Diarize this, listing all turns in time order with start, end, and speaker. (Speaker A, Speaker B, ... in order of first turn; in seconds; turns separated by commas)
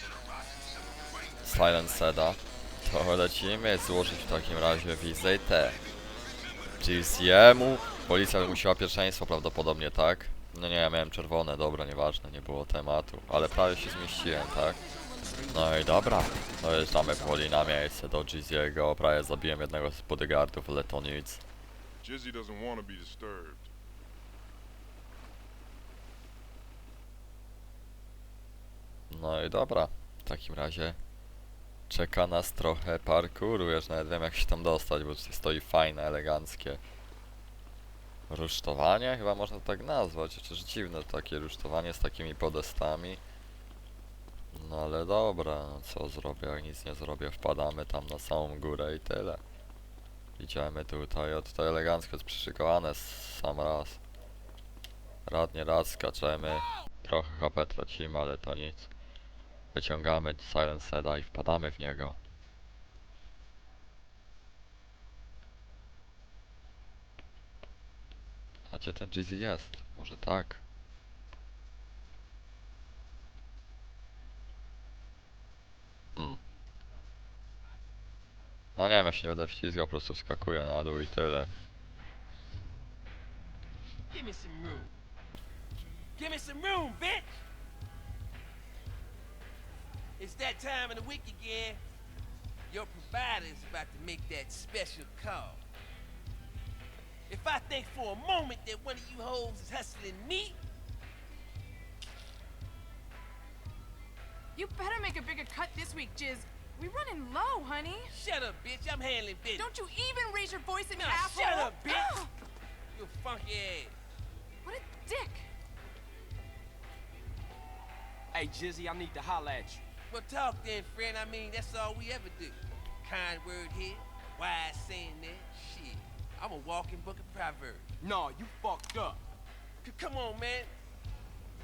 Speaker A: 0.6-1.1, Speaker B: 1.4-5.8, Speaker B: 6.8-14.8, Speaker B: 15.5-21.4, Speaker A: 22.0-23.7, Speaker B: 29.1-31.0, Speaker B: 31.9-36.8, Speaker B: 38.3-43.2, Speaker B: 44.5-49.4, Speaker B: 50.4-54.0, Speaker B: 55.2-58.9, Speaker B: 59.7-62.2, Speaker B: 68.7-70.6, Speaker B: 78.8-81.5, Speaker C: 84.1-84.9, Speaker C: 86.2-87.4, Speaker C: 90.2-91.8, Speaker C: 92.7-95.6, Speaker C: 97.3-100.6, Speaker D: 104.5-108.1, Speaker C: 108.1-109.7, Speaker D: 109.5-112.3, Speaker C: 110.9-112.2, Speaker C: 112.9-113.9, Speaker D: 114.6-115.5, Speaker E: 118.3-119.8, Speaker C: 120.1-127.9, Speaker E: 128.0-129.2, Speaker C: 129.8-130.7